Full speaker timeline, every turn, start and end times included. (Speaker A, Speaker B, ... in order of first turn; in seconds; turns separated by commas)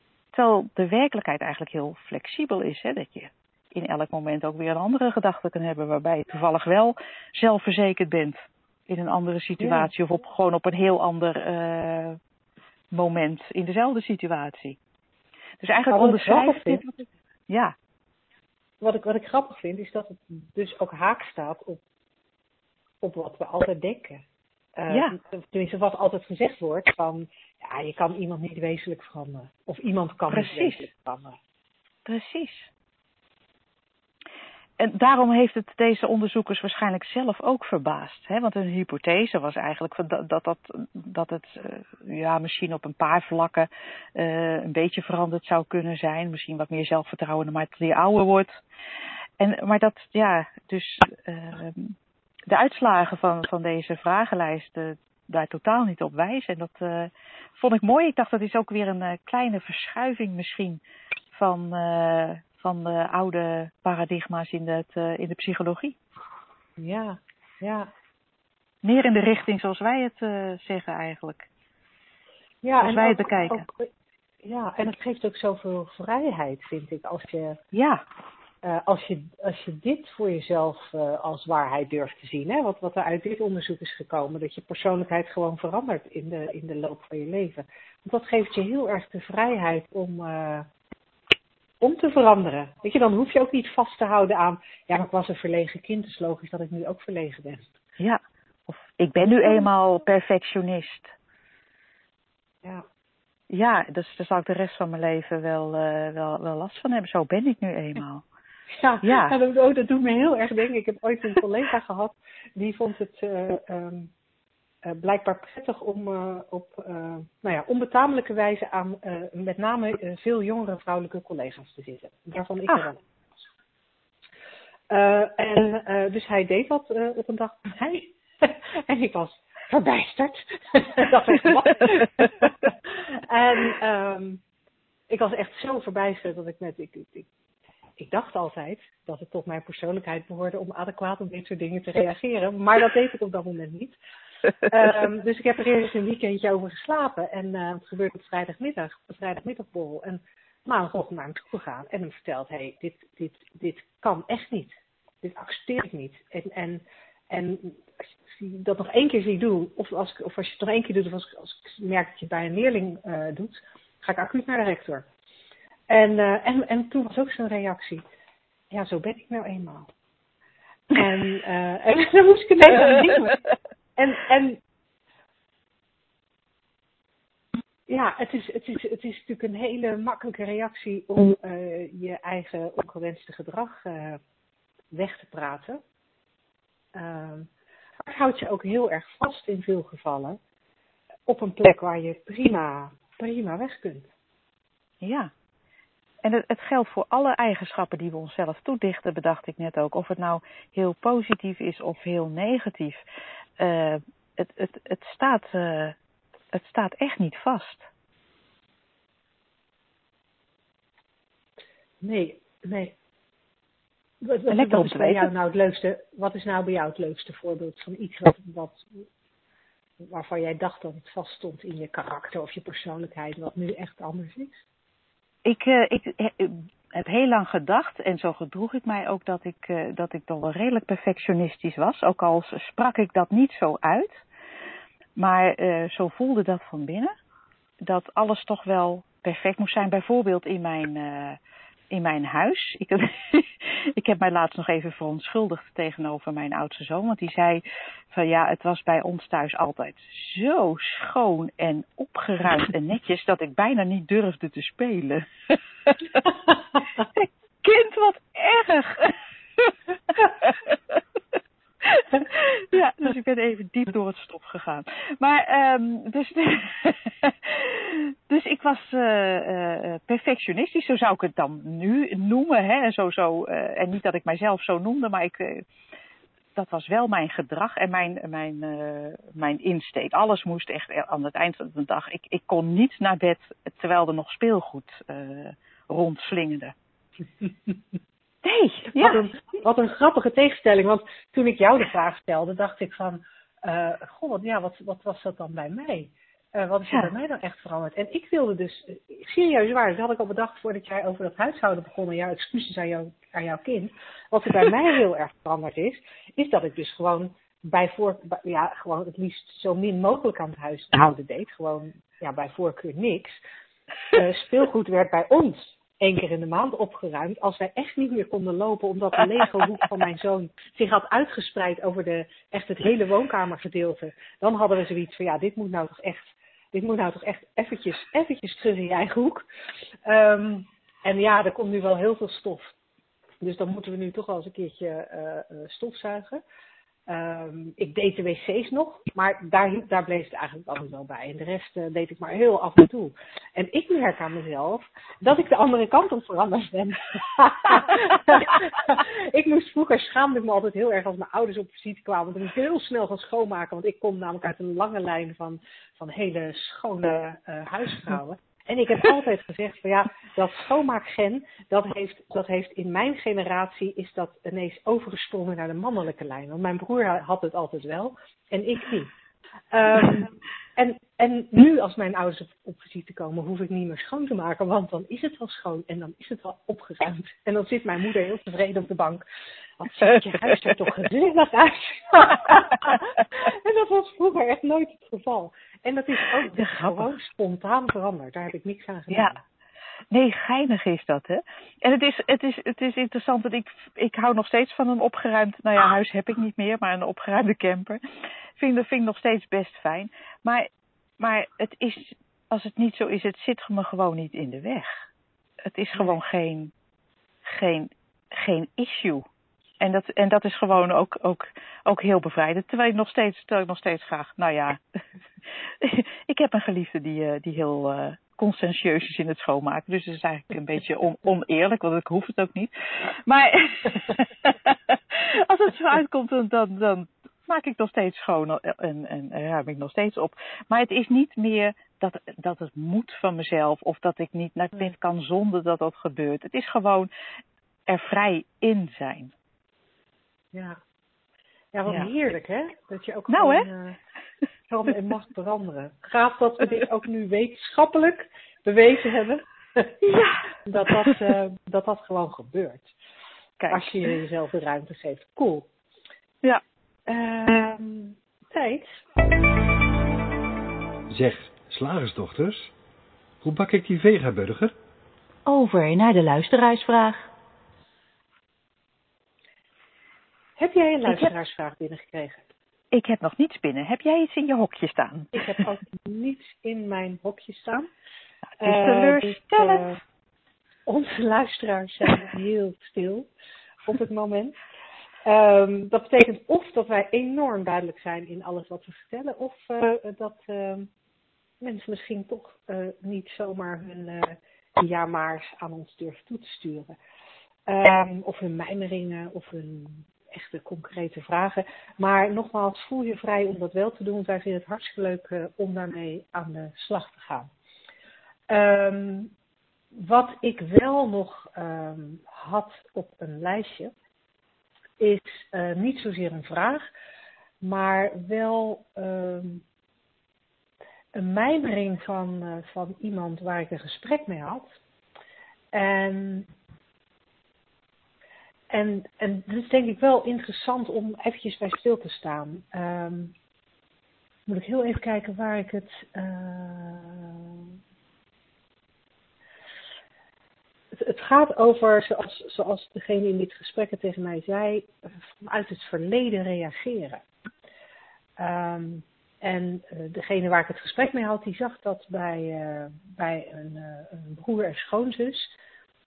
Speaker A: 0.3-12.2, Speaker B: 9.6-9.9, Speaker A: 12.9-14.8, Speaker A: 15.6-17.8, Speaker B: 15.9-16.8, Speaker B: 18.8-21.8, Speaker B: 23.0-24.2, Speaker B: 24.8-31.4, Speaker A: 24.9-25.1, Speaker A: 30.3-30.9, Speaker A: 32.1-32.7, Speaker A: 34.8-48.6, Speaker A: 49.4-52.0, Speaker A: 52.5-60.8, Speaker A: 61.3-66.0, Speaker B: 66.8-67.9, Speaker A: 68.8-71.5, Speaker B: 72.6-73.9, Speaker A: 72.8-73.7, Speaker B: 74.4-77.6, Speaker A: 77.7-78.0, Speaker B: 78.6-90.7, Speaker B: 91.8-97.7, Speaker A: 98.0-101.1, Speaker B: 99.2-99.7, Speaker A: 103.5-108.2, Speaker B: 108.8-114.1, Speaker A: 109.0-109.4, Speaker B: 114.8-123.0, Speaker B: 124.9-132.7, Speaker B: 133.2-134.4, Speaker B: 135.1-137.3, Speaker B: 138.0-144.0, Speaker B: 144.7-165.1, Speaker B: 165.9-168.0, Speaker B: 168.7-169.9, Speaker B: 170.9-173.4, Speaker B: 174.0-174.6, Speaker B: 177.9-184.2, Speaker B: 184.9-185.8, Speaker B: 186.9-187.5, Speaker B: 188.0-190.4, Speaker B: 191.3-194.1, Speaker A: 195.0-195.3, Speaker A: 196.2-203.0, Speaker A: 203.6-206.0, Speaker A: 206.5-207.9, Speaker B: 212.0-212.9, Speaker B: 214.2-218.9, Speaker A: 214.5-215.3, Speaker B: 220.0-224.6, Speaker A: 225.4-234.2, Speaker A: 235.2-237.1, Speaker A: 237.8-241.4, Speaker A: 241.9-256.3, Speaker A: 257.1-261.0, Speaker A: 261.8-275.6, Speaker A: 276.6-286.8, Speaker A: 288.4-289.2, Speaker B: 289.0-313.4, Speaker B: 314.1-329.5, Speaker B: 330.1-332.8, Speaker B: 333.4-336.4, Speaker B: 337.1-369.1, Speaker B: 369.7-379.2, Speaker B: 379.8-389.4, Speaker A: 386.6-387.1, Speaker A: 390.1-398.0, Speaker A: 398.6-405.1, Speaker A: 405.6-406.7, Speaker A: 407.4-409.3, Speaker A: 409.8-414.8, Speaker A: 415.5-437.1, Speaker A: 437.9-439.3, Speaker B: 440.5-440.8, Speaker B: 441.7-444.0, Speaker A: 443.3-443.7, Speaker B: 444.7-449.9, Speaker A: 450.0-451.1, Speaker B: 450.7-452.9, Speaker A: 453.6-453.9, Speaker B: 453.7-455.7, Speaker B: 457.1-459.1, Speaker C: 461.1-462.7, Speaker C: 463.4-464.7, Speaker A: 465.5-467.3, Speaker B: 470.6-472.5, Speaker A: 472.9-475.6, Speaker B: 475.4-477.9, Speaker B: 478.6-480.0, Speaker A: 478.6-479.9, Speaker B: 480.9-483.3, Speaker B: 483.9-484.6, Speaker B: 485.2-490.9, Speaker B: 491.6-497.0, Speaker B: 497.7-507.5, Speaker B: 508.5-509.3, Speaker B: 509.9-513.9, Speaker B: 515.0-516.9, Speaker B: 517.6-519.6, Speaker B: 521.1-524.8, Speaker B: 525.7-526.5, Speaker B: 528.7-533.3, Speaker B: 534.5-537.7, Speaker B: 540.9-544.9, Speaker B: 545.4-547.2, Speaker B: 548.4-555.5